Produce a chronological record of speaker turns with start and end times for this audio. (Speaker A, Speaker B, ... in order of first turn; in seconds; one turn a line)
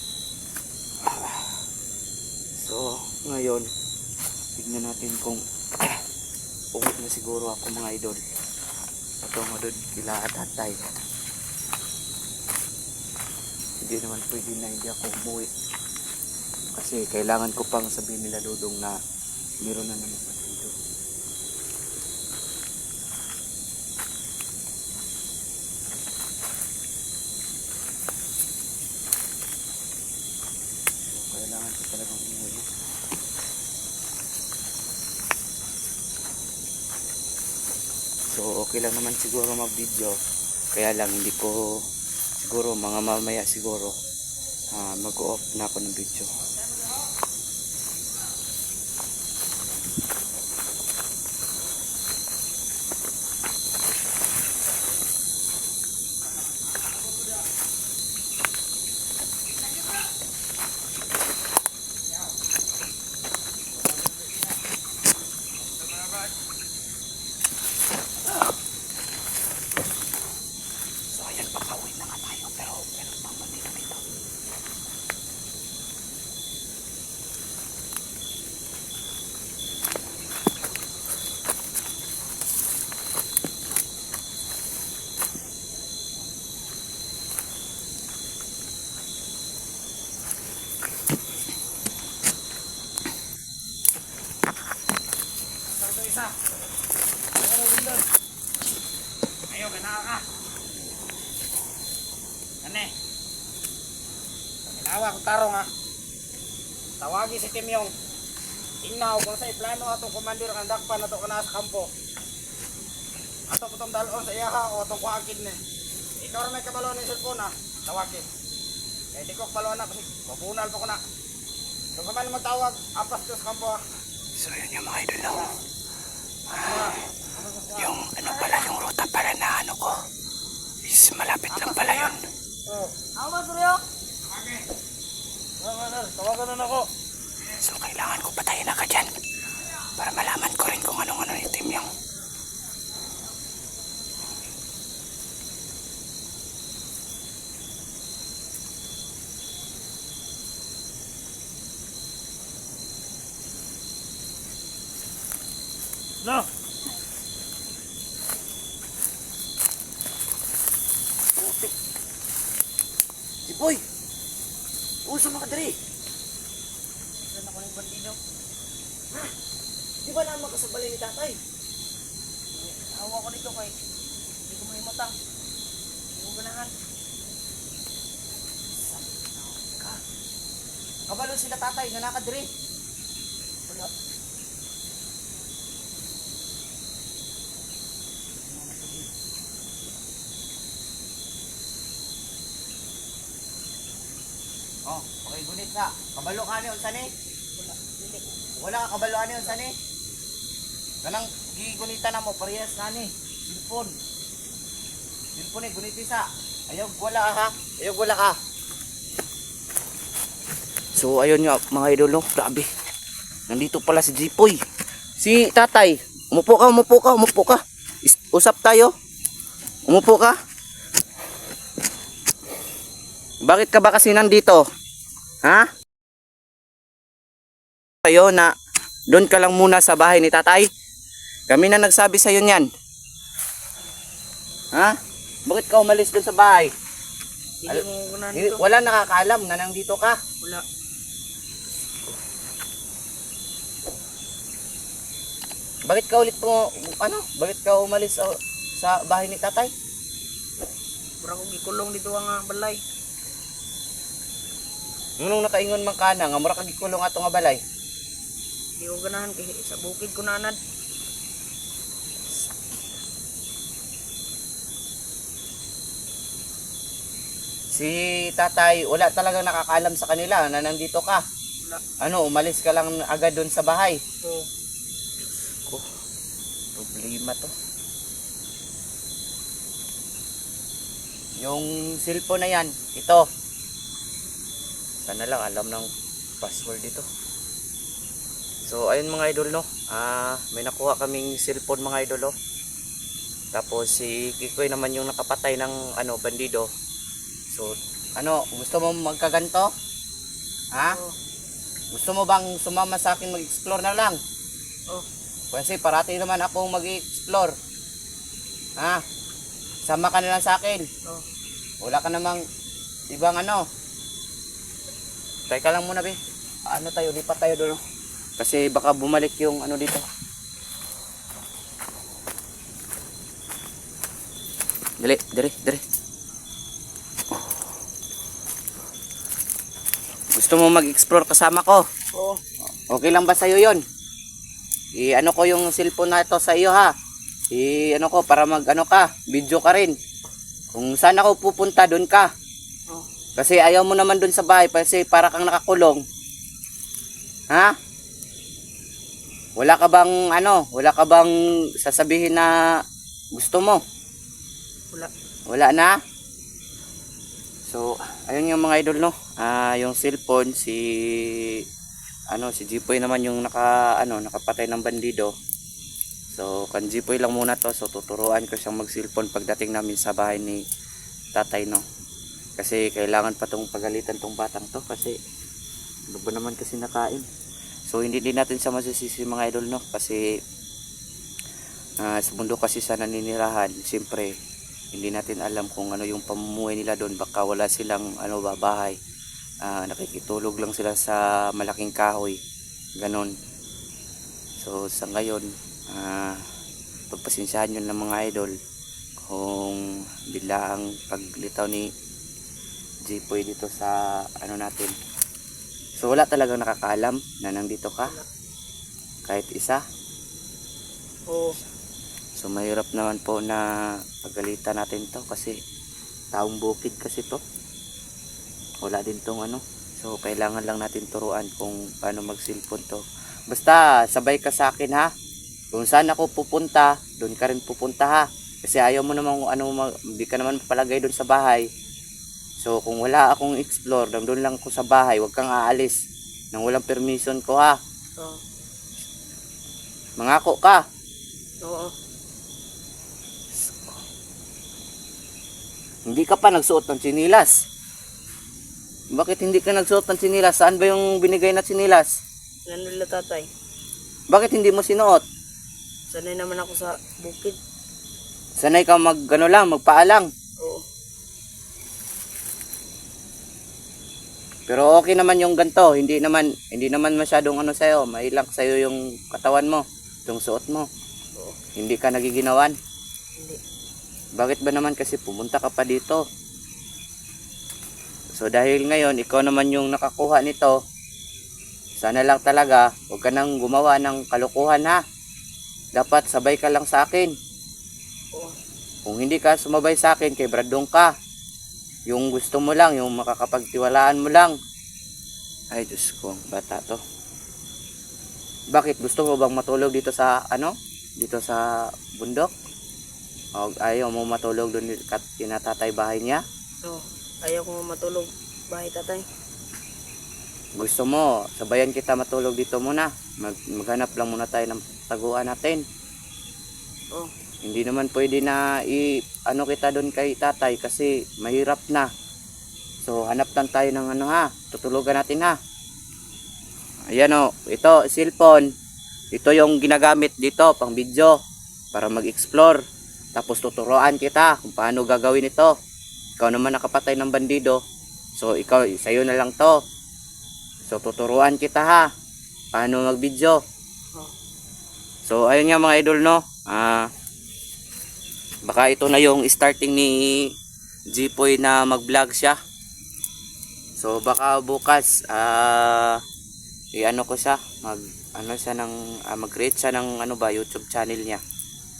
Speaker A: 1.0-1.6
Speaker A: 2.6-3.7
Speaker A: 4.5-6.0
Speaker A: 6.7-8.2
Speaker A: 9.2-10.8
Speaker A: 13.8-15.5
Speaker A: 16.7-18.9
Speaker A: 19.6-20.7
Speaker A: 31.1-32.7
Speaker A: 38.3-40.2
Speaker A: 40.7-41.8
Speaker A: 42.4-43.9
Speaker A: 44.7-46.3
Speaker A: 71.1-74.0
Speaker B: 95.8-96.3
Speaker B: 97.4-98.1
Speaker B: 99.5-100.2
Speaker B: 102.6-102.9
Speaker B: 104.7-105.7
Speaker B: 107.0-108.0
Speaker B: 108.8-111.9
Speaker B: 113.5-115.6
Speaker B: 116.2-118.3
Speaker B: 119.1-121.0
Speaker B: 121.9-123.8
Speaker A: 124.4-125.5
Speaker A: 126.5-126.9
Speaker A: 127.7-130.0
Speaker A: 130.8-132.2
Speaker C: 132.7-133.8
Speaker B: 136.0-136.4
Speaker A: 137.4-139.2
Speaker A: 139.8-141.9
Speaker A: 161.4-161.7
Speaker A: 163.4-163.8
Speaker A: 165.1-165.8
Speaker C: 167.2-168.2
Speaker A: 170.0-171.4
Speaker C: 172.5-173.7
Speaker C: 174.5-175.1
Speaker C: 176.2-176.7
Speaker A: 178.8-180.0
Speaker A: 181.1-182.5
Speaker A: 188.6-189.0
Speaker A: 194.8-197.1
Speaker C: 197.6-198.2
Speaker A: 198.6-199.8
Speaker A: 201.0-203.9
Speaker A: 205.3-208.4
Speaker A: 210.9-212.7
Speaker A: 213.5-214.6
Speaker A: 215.2-218.9
Speaker A: 219.9-220.3
Speaker A: 223.4-224.6
Speaker A: 225.4-225.7
Speaker A: 228.0-228.5
Speaker A: 229.1-230.7
Speaker A: 231.5-232.7
Speaker A: 234.7-236.7
Speaker C: 237.6-238.6
Speaker A: 237.7-240.2
Speaker A: 245.9-249.7
Speaker C: 251.2-252.8
Speaker A: 255.2-257.6
Speaker C: 258.8-260.6
Speaker A: 267.7-271.2
Speaker A: 272.0-274.0
Speaker A: 276.7-277.5
Speaker A: 281.4-283.2
Speaker A: 285.0-285.9
Speaker A: 286.4-287.0
Speaker A: 288.6-292.3
Speaker A: 293.5-296.7
Speaker A: 297.5-299.7
Speaker A: 300.7-301.0
Speaker A: 301.9-304.2
Speaker A: 305.5-307.5
Speaker A: 309.9-310.9
Speaker A: 311.8-312.4
Speaker A: 313.1-313.6
Speaker A: 315.5-316.2
Speaker A: 316.7-317.8
Speaker A: 318.4-320.0
Speaker A: 325.0-325.8
Speaker A: 330.3-331.8
Speaker C: 332.1-332.4
Speaker A: 332.8-333.8
Speaker A: 335.0-336.9
Speaker A: 337.5-339.9
Speaker A: 340.7-342.3
Speaker A: 343.4-346.0
Speaker A: 349.6-352.6
Speaker A: 353.3-353.8
Speaker A: 355.5-355.9
Speaker A: 357.6-361.6
Speaker A: 362.3-365.3
Speaker A: 366.3-370.6
Speaker A: 371.3-371.8
Speaker A: 372.6-375.2
Speaker A: 376.1-377.2
Speaker A: 377.9-380.3
Speaker A: 382.0-384.3
Speaker A: 384.9-389.0
Speaker A: 389.6-392.4
Speaker A: 393.0-393.3
Speaker A: 394.6-396.5
Speaker A: 397.1-398.5
Speaker A: 399.2-401.9
Speaker A: 403.1-404.9
Speaker A: 406.0-408.1
Speaker A: 409.2-409.8
Speaker C: 411.3-411.6
Speaker A: 412.4-415.5
Speaker A: 416.3-417.4
Speaker A: 418.8-425.1
Speaker A: 425.7-431.6
Speaker A: 432.6-435.9
Speaker A: 436.5-437.8
Speaker A: 440.2-440.8
Speaker C: 441.6-441.9
Speaker A: 443.6-444.0
Speaker A: 446.1-447.5
Speaker A: 449.1-452.1
Speaker C: 452.7-453.5
Speaker A: 454.3-455.2
Speaker C: 456.1-457.6
Speaker A: 458.6-460.3
Speaker A: 464.7-470.9
Speaker A: 471.8-472.7
Speaker A: 474.4-476.2
Speaker A: 478.4-480.7
Speaker A: 482.0-485.0
Speaker A: 485.9-487.3
Speaker A: 489.0-491.1
Speaker A: 492.1-494.6
Speaker A: 495.7-497.0
Speaker A: 498.7-502.5
Speaker A: 503.6-506.4
Speaker C: 506.8-509.2
Speaker A: 510.8-515.8
Speaker A: 517.6-522.1
Speaker A: 523.0-525.6
Speaker A: 527.1-528.7
Speaker A: 529.3-531.4
Speaker A: 531.9-532.8
Speaker A: 533.3-535.7
Speaker A: 536.4-537.8
Speaker A: 538.4-539.8
Speaker A: 540.9-542.1
Speaker A: 542.7-543.6
Speaker A: 545.2-547.1
Speaker A: 548.6-550.5
Speaker A: 551.1-552.6
Speaker A: 554.0-556.2
Speaker A: 557.0-561.4